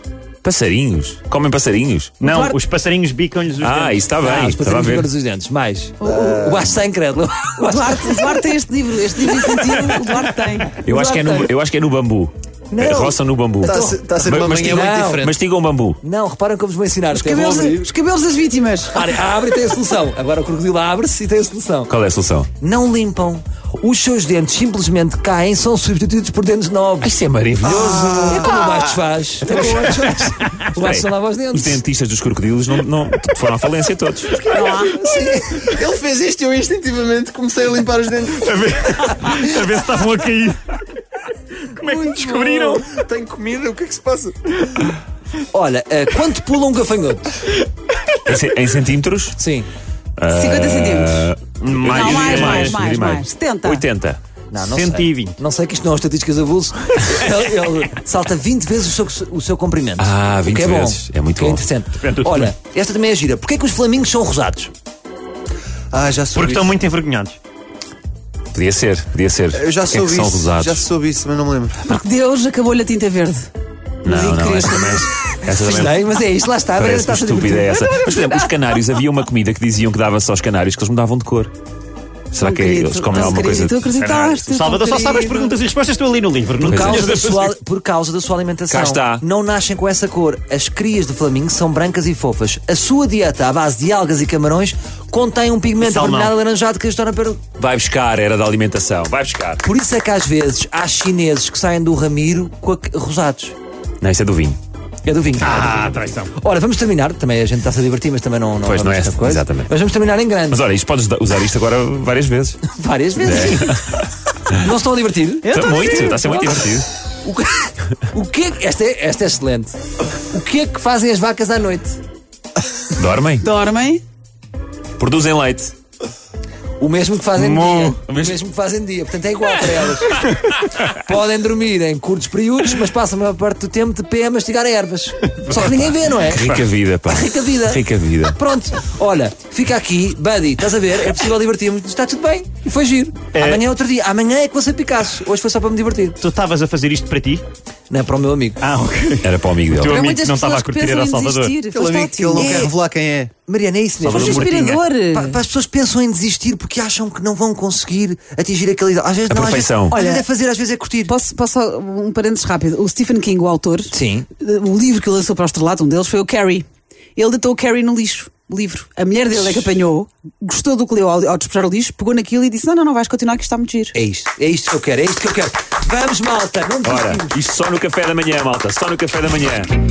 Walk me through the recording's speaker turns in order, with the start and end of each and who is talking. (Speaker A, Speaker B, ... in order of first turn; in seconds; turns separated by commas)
Speaker A: 0.4-2.1, Speaker B: 2.2-4.1, Speaker C: 2.2-2.6, Speaker A: 3.6-5.1, Speaker C: 4.2-8.5, Speaker D: 6.0-6.5, Speaker E: 6.1-6.6, Speaker D: 7.6-10.8, Speaker C: 9.3-10.0, Speaker C: 10.8-11.5, Speaker A: 10.8-16.0, Speaker C: 12.7-14.1, Speaker E: 13.6-15.3, Speaker C: 14.6-15.3, Speaker C: 16.0-17.9, Speaker D: 17.1-19.0, Speaker C: 18.9-21.9, Speaker A: 21.9-22.5, Speaker C: 22.6-27.1, Speaker A: 27.0-28.1, Speaker C: 27.6-31.8, Speaker E: 27.6-28.8, Speaker A: 30.8-34.5, Speaker D: 34.5-35.0, Speaker C: 34.8-35.5, Speaker E: 35.0-39.1, Speaker B: 38.4-40.8, Speaker B: 41.7-42.9, Speaker E: 42.1-44.5, Speaker C: 45.5-47.5, Speaker A: 48.3-49.4, Speaker C: 49.4-49.7, Speaker A: 50.2-54.2, Speaker D: 50.3-51.3, Speaker B: 51.6-52.8, Speaker D: 51.9-53.8, Speaker C: 54.5-64.7, Speaker B: 54.6-55.4, Speaker A: 60.0-61.6, Speaker B: 62.0-62.5, Speaker E: 65.9-66.8, Speaker B: 66.3-67.4, Speaker A: 68.5-70.8, Speaker E: 69.5-71.8, Speaker D: 71.8-73.5, Speaker A: 74.0-76.0, Speaker D: 74.0-75.1, Speaker C: 75.5-78.1, Speaker A: 76.8-81.5, Speaker A: 82.3-83.8, Speaker D: 82.4-85.6, Speaker B: 84.0-87.5, Speaker C: 86.6-97.5, Speaker A: 86.7-87.1, Speaker A: 88.7-89.2, Speaker B: 95.8-96.3, Speaker A: 97.6-99.6, Speaker C: 99.6-103.6, Speaker A: 104.0-104.6, Speaker C: 105.0-110.6, Speaker B: 105.4-106.3, Speaker A: 108.6-109.7, Speaker A: 110.5-112.6, Speaker C: 112.7-113.8, Speaker A: 113.2-114.1, Speaker C: 114.5-115.6, Speaker A: 115.5-116.9, Speaker D: 115.6-116.5, Speaker C: 117.2-122.0, Speaker A: 123.0-123.5, Speaker D: 123.4-124.0, Speaker A: 125.0-125.7, Speaker C: 126.8-136.6, Speaker B: 127.4-127.9, Speaker A: 127.9-128.4, Speaker B: 135.6-136.7, Speaker A: 136.3-138.4, Speaker C: 137.1-146.2, Speaker B: 143.3-143.6, Speaker B: 146.2-147.4, Speaker C: 147.9-148.6, Speaker B: 148.6-151.5, Speaker A: 149.2-150.0, Speaker D: 149.9-152.6, Speaker E: 151.7-153.3, Speaker C: 152.3-152.8, Speaker C: 153.4-161.1, Speaker A: 154.0-154.8, Speaker E: 154.1-154.8, Speaker D: 154.1-155.4, Speaker A: 159.3-159.9, Speaker D: 159.9-160.3, Speaker D: 161.1-174.0, Speaker C: 163.9-164.3, Speaker C: 169.3-169.7, Speaker C: 173.9-177.4, Speaker A: 176.9-179.7